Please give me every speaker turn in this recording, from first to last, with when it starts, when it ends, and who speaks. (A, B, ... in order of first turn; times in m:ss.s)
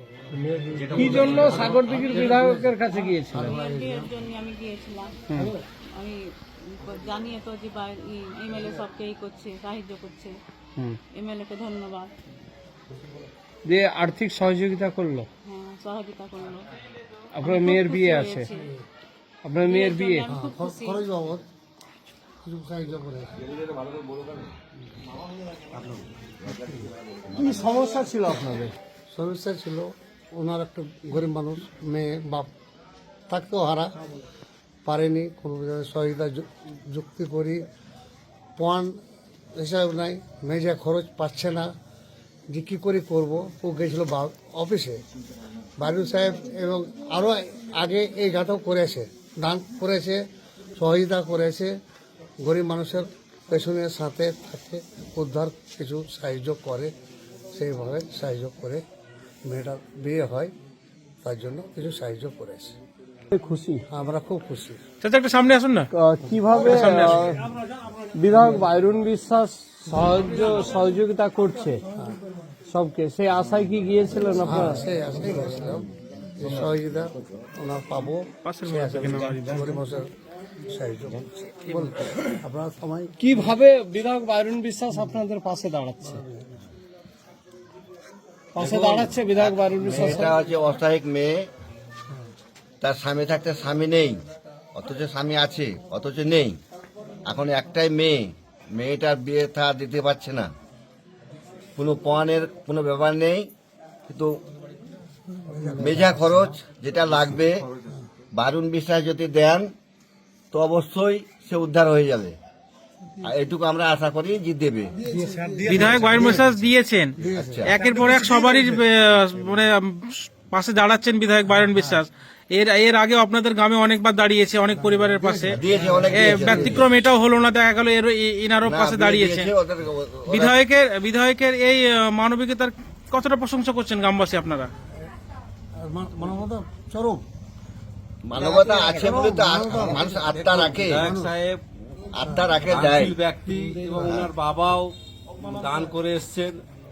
0:00.4-0:02.7 A
0:00.9-0:03.6 B
0:01.1-0:01.6 C
0:03.3-0:04.1 A
0:03.5-0:05.2 D
0:06.0-0:10.3 D
0:11.1-0:12.1 D
0:13.7-0:15.3 B
0:15.4-0:16.7 D
0:17.3-0:18.5 B
0:17.4-0:18.7 D
0:19.4-0:20.3 B
0:19.7-0:21.0 D
0:20.3-0:21.5 A
0:22.4-0:23.4 A
0:27.4-0:28.7 B
0:29.1-0:32.5 A
0:33.3-0:33.9 A
0:34.8-0:37.7 A
0:38.6-0:39.0 A
0:39.6-0:41.7 A
0:42.5-0:45.0 A
0:45.8-0:50.2 A
0:50.8-0:51.8 A
0:52.4-0:56.9 A
0:57.5-0:58.8 A
0:59.4-1:00.5 A
1:01.2-1:02.8 A
1:03.3-1:03.8 B
1:03.9-1:04.8 A
1:05.0-1:05.9 E
1:05.9-1:07.4 B
1:06.5-1:07.3 E
1:08.1-1:11.8 B
1:12.7-1:14.8 B
1:14.4-1:20.1 A
1:18.5-1:19.7 E
1:20.7-1:23.1 A
1:23.2-1:26.2 B
1:28.6-1:30.4 B
1:28.6-1:29.2 C
1:29.4-1:31.5 F
1:32.8-1:34.2 F
1:34.8-1:36.6 F
1:37.2-1:40.5 F
1:41.8-1:43.5 F
1:44.1-1:44.4 F
1:45.5-1:46.6 A
1:45.8-1:47.6 F
1:48.3-1:49.7 F
1:50.5-1:52.4 F
1:53.2-1:55.0 F
1:55.1-1:56.4 A
1:55.7-2:09.5 E
1:57.2-1:58.0 A
1:57.4-1:57.8 F
2:04.8-2:06.8 A
2:05.5-2:06.9 F
2:08.6-2:10.6 F
2:10.3-2:14.7 E
2:15.8-2:17.2 A
2:18.2-2:21.1 F
2:18.4-2:21.3 A
2:20.8-2:21.6 C
2:22.1-2:23.2 F
2:22.6-2:26.6 C